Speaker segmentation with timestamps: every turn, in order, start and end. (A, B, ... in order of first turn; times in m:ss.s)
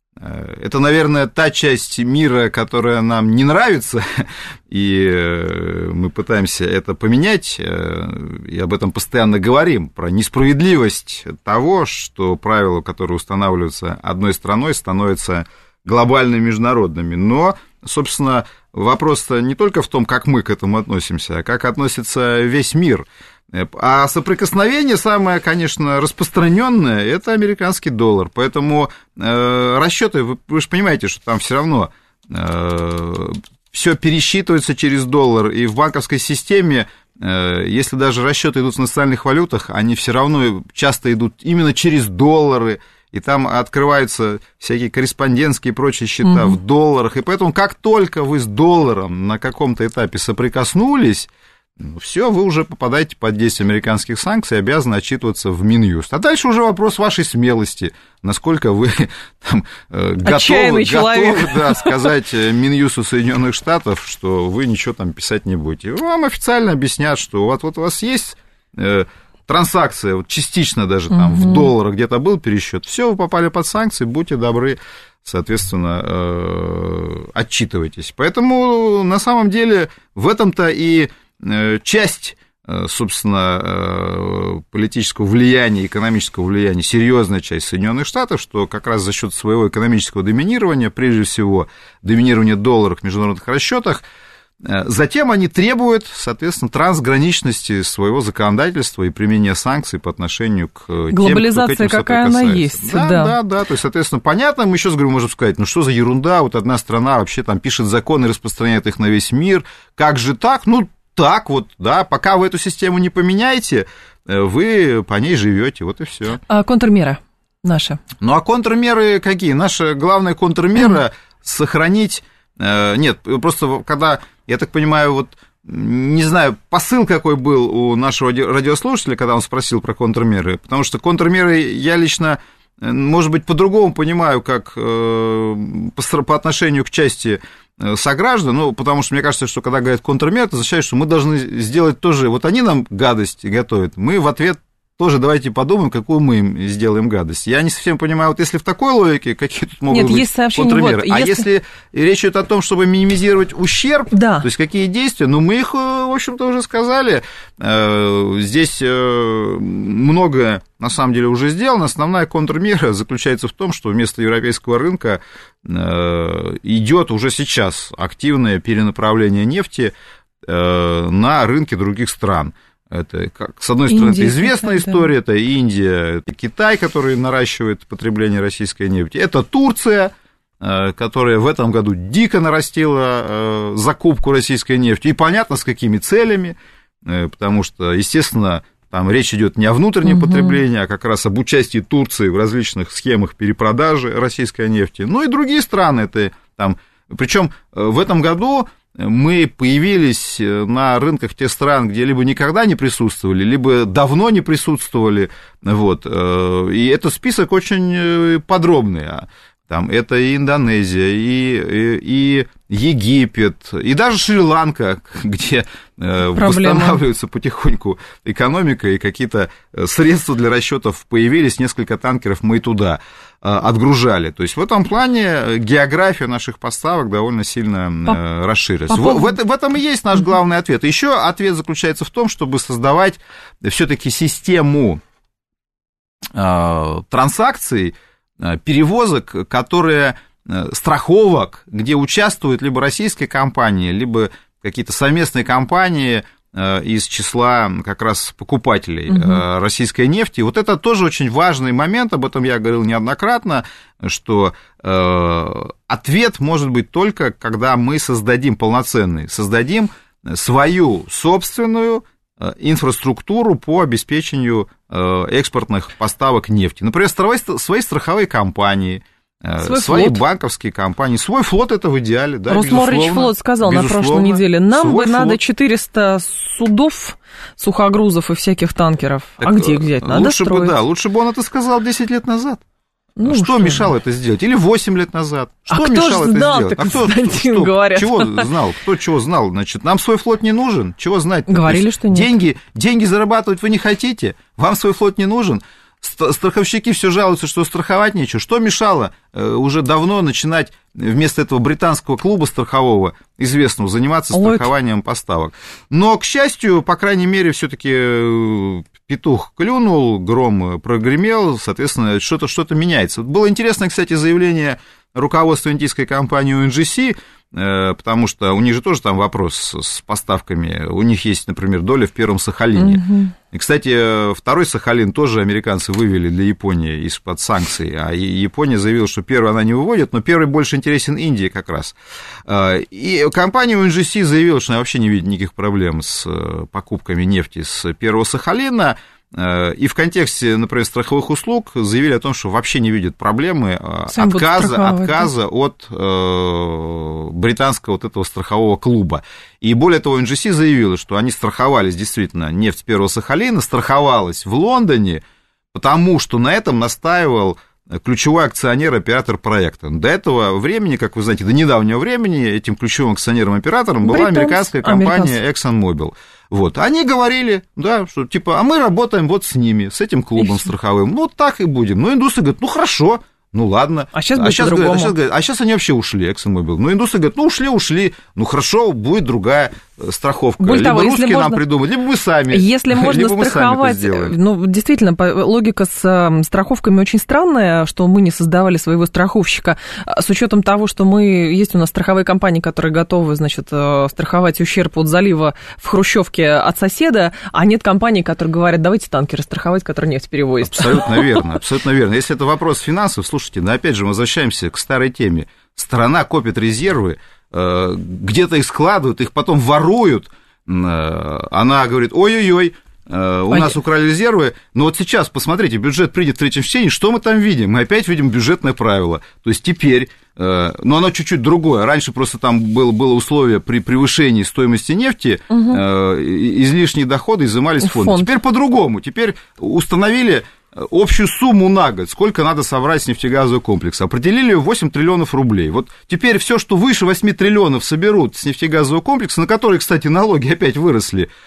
0:00.2-1:34.0 A
0:46.2-0:46.6 B
1:00.2-1:02.1 B
1:11.1-1:11.7 B
1:34.6-1:56.4 A
1:41.1-1:43.4 B
1:56.5-1:58.0 B
1:58.2-2:49.9 A
2:29.9-2:31.4 B
2:34.1-2:34.5 B
2:50.4-3:55.0 A
2:53.9-2:55.1 B
3:10.1-3:10.6 B
3:36.3-3:37.0 B
3:48.9-3:49.4 B
3:56.3-4:35.4 A
4:09.1-4:09.4 B
4:29.6-4:30.2 B
4:32.5-4:40.8 B
4:39.4-4:42.6 A
4:43.2-4:43.9 B
4:43.2-5:55.2 A
4:45.7-4:48.5 B
4:51.5-4:52.3 B
5:04.3-5:04.7 B
5:22.8-5:23.4 B
5:44.1-5:45.3 B
5:55.7-6:24.4 A
6:04.0-6:05.4 B
6:14.1-6:15.1 B
6:20.6-6:21.6 B
6:22.5-6:41.4 B
6:40.6-7:21.3 A
7:05.5-7:05.8 B
7:07.8-7:08.3 B